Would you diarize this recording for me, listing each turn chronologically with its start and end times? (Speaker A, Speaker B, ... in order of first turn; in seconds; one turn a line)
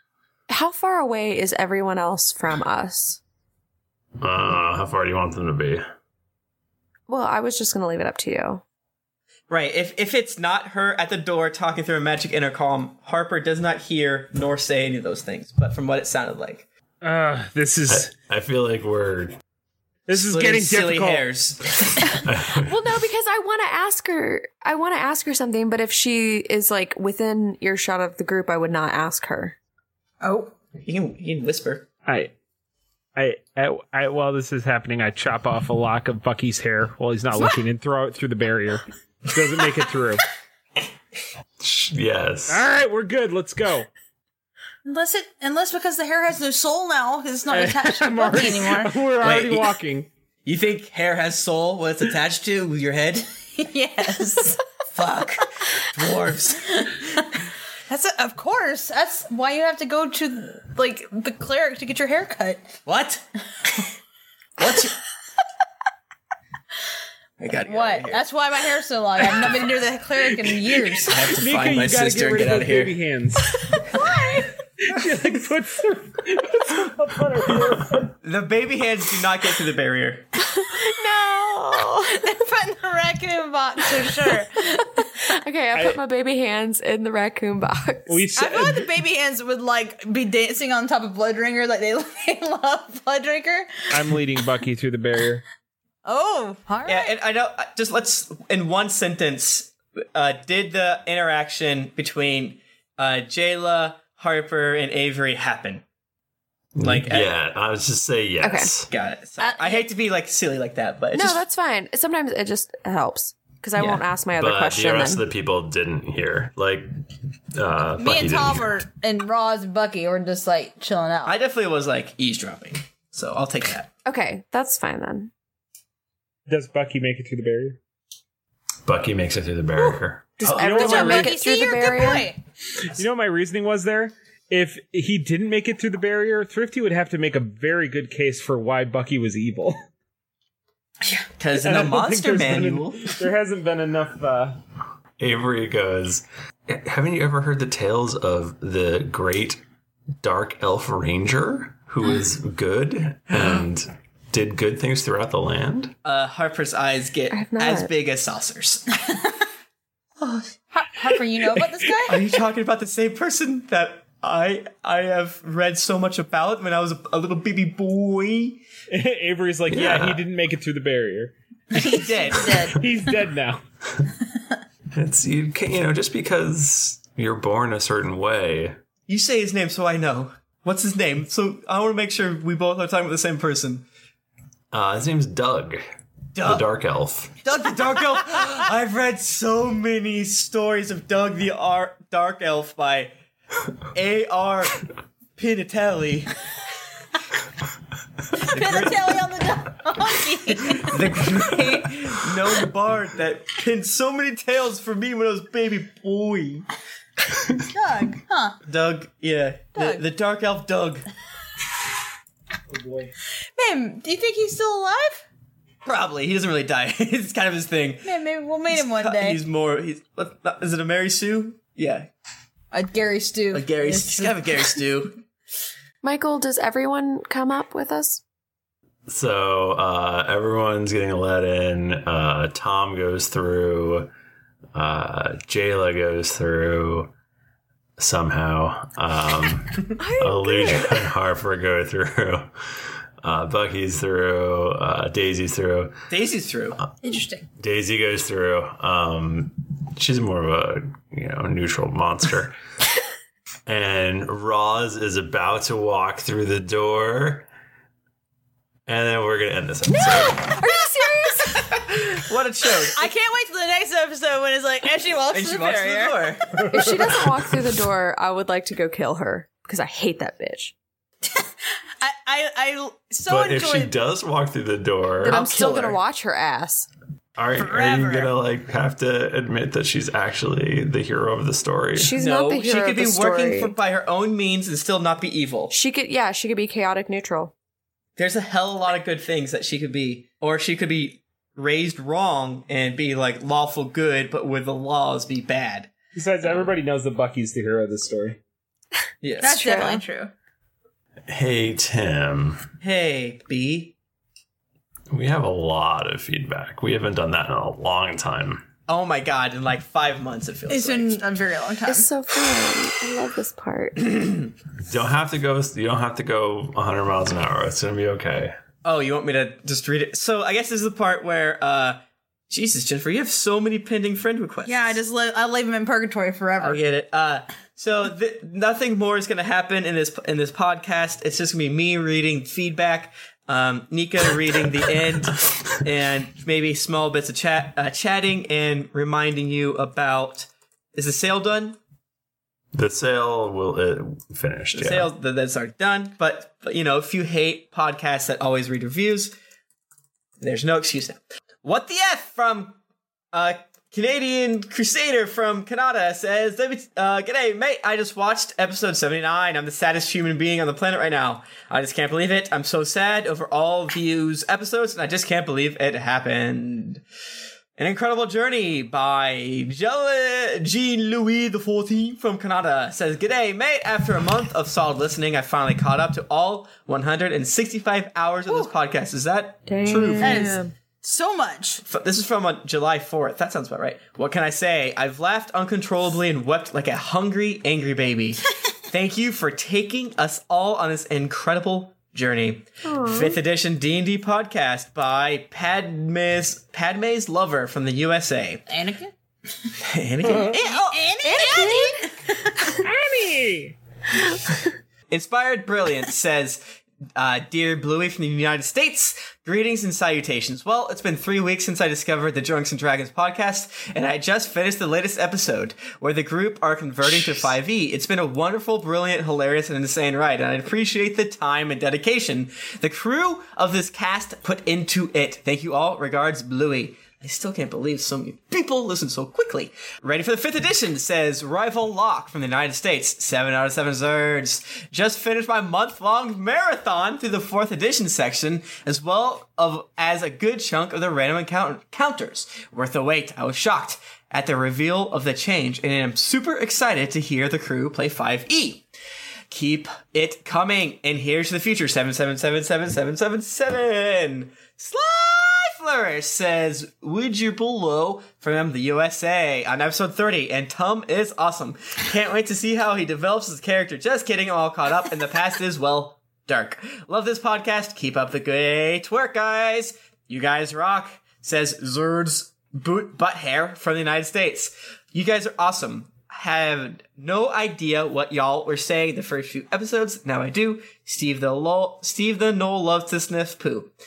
Speaker A: 0.5-3.2
Speaker B: 4.2-5.8
Speaker A: 7.1-8.6
Speaker C: 9.5-16.6
Speaker D: 17.0-18.1
Speaker B: 17.9-19.4
Speaker D: 20.1-21.3
Speaker C: 20.1-22.2
Speaker B: 22.2-22.8
Speaker A: 22.5-29.6
Speaker E: 30.2-30.5
Speaker C: 30.8-31.9
Speaker D: 32.0-32.3
Speaker D: 33.1-40.2
Speaker B: 41.6-42.6
Speaker D: 42.5-43.9
Speaker E: 44.8-48.9
Speaker D: 47.5-50.1
Speaker C: 49.2-49.7
Speaker C: 50.4-53.3
Speaker E: 53.5-54.6
Speaker C: 54.9-56.7
Speaker E: 57.9-62.8
Speaker C: 62.9-63.2
Speaker C: 64.6-65.0
Speaker C: 67.4-68.2
Speaker E: 67.7-71.1
Speaker C: 71.0-72.9
Speaker D: 71.3-73.6
Speaker E: 73.9-74.4
Speaker D: 74.8-78.1
Speaker C: 78.2-80.3
Speaker A: 80.4-82.3
Speaker E: 82.1-85.0
Speaker A: 85.2-88.3
Speaker D: 85.7-86.0
Speaker D: 88.1-88.9
Speaker E: 88.3-93.8
Speaker D: 93.9-95.4
Speaker E: 96.0-97.1
Speaker C: 96.8-105.8
Speaker B: 106.8-108.9
Speaker C: 106.8-107.3
Speaker A: 108.4-108.7
Speaker C: 108.9-111.4
Speaker E: 109.4-109.9
Speaker A: 111.1-115.2
Speaker C: 113.8-114.0
Speaker B: 114.3-116.9
Speaker B: 117.5-118.8
Speaker E: 118.0-121.3
Speaker C: 121.2-123.9
Speaker A: 124.0-125.3
Speaker D: 126.5-127.8
Speaker B: 128.8-130.3
Speaker D: 130.4-131.3
Speaker A: 130.4-132.3
Speaker C: 130.4-130.8
Speaker E: 130.6-132.4
Speaker D: 132.9-139.8
Speaker C: 141.4-143.2
Speaker D: 141.5-144.6
Speaker B: 145.2-149.6
Speaker B: 150.2-155.9
Speaker C: 156.0-158.9
Speaker A: 157.3-157.9
Speaker E: 160.2-162.2
Speaker C: 162.1-168.6
Speaker D: 168.9-171.3
Speaker B: 169.7-170.2
Speaker E: 171.7-172.8
Speaker C: 171.9-172.8
Speaker D: 172.7-173.6
Speaker B: 174.9-178.8
Speaker C: 179.1-183.8
Speaker B: 184.7-185.8
Speaker C: 186.3-186.7
Speaker B: 186.4-187.3
Speaker C: 187.4-193.1
Speaker C: 193.9-194.8
Speaker C: 195.4-196.3
Speaker E: 198.4-200.9
Speaker C: 198.5-199.1
Speaker C: 200.7-206.7
Speaker E: 207.7-208.6
Speaker C: 208.7-211.0
Speaker E: 209.8-210.0
Speaker D: 212.7-213.1
Speaker E: 213.6-215.2
Speaker C: 215.8-218.1
Speaker E: 218.0-219.4
Speaker C: 218.7-222.1
Speaker E: 222.7-224.4
Speaker C: 223.5-225.2
Speaker A: 226.0-228.2
Speaker B: 229.1-234.1
Speaker B: 234.7-237.1
Speaker B: 238.0-242.5
Speaker A: 240.0-241.1
Speaker B: 243.2-245.9
Speaker C: 246.1-246.8
Speaker E: 247.0-247.4
Speaker B: 247.6-252.5
Speaker B: 253.7-257.5
Speaker B: 258.9-260.5
Speaker A: 260.5-261.4
Speaker E: 260.6-261.4
Speaker C: 262.1-263.0
Speaker E: 262.9-266.3
Speaker C: 265.3-266.6
Speaker A: 266.7-270.7
Speaker E: 272.0-273.9
Speaker B: 273.3-275.4
Speaker A: 275.2-276.9
Speaker C: 275.3-276.0
Speaker E: 275.3-275.6
Speaker B: 277.4-282.1
Speaker C: 277.6-277.9
Speaker E: 277.7-278.3
Speaker A: 282.0-283.7
Speaker C: 282.2-285.7
Speaker A: 285.7-287.5
Speaker C: 288.2-295.9
Speaker D: 296.1-298.4
Speaker C: 299.2-299.6
Speaker E: 299.4-300.3
Speaker A: 299.5-300.0
Speaker B: 301.3-302.6
Speaker C: 302.8-303.9
Speaker B: 305.1-308.6
Speaker C: 308.9-311.2
Speaker E: 310.7-312.1
Speaker A: 311.9-314.1
Speaker B: 314.9-318.5
Speaker C: 318.8-324.9
Speaker E: 324.6-326.8
Speaker C: 326.6-341.8
Speaker B: 342.7-345.1
Speaker C: 344.7-349.3
Speaker C: 350.4-352.8
Speaker C: 353.3-367.0
Speaker C: 367.8-380.6
Speaker A: 379.6-380.6
Speaker E: 380.2-381.8
Speaker C: 381.8-398.6
Speaker A: 392.8-393.4
Speaker E: 398.7-399.1
Speaker C: 399.8-401.0
Speaker E: 400.3-402.5
Speaker A: 401.2-402.1
Speaker D: 402.8-403.8
Speaker C: 405.1-406.6
Speaker C: 407.1-448.8
Speaker C: 449.5-483.9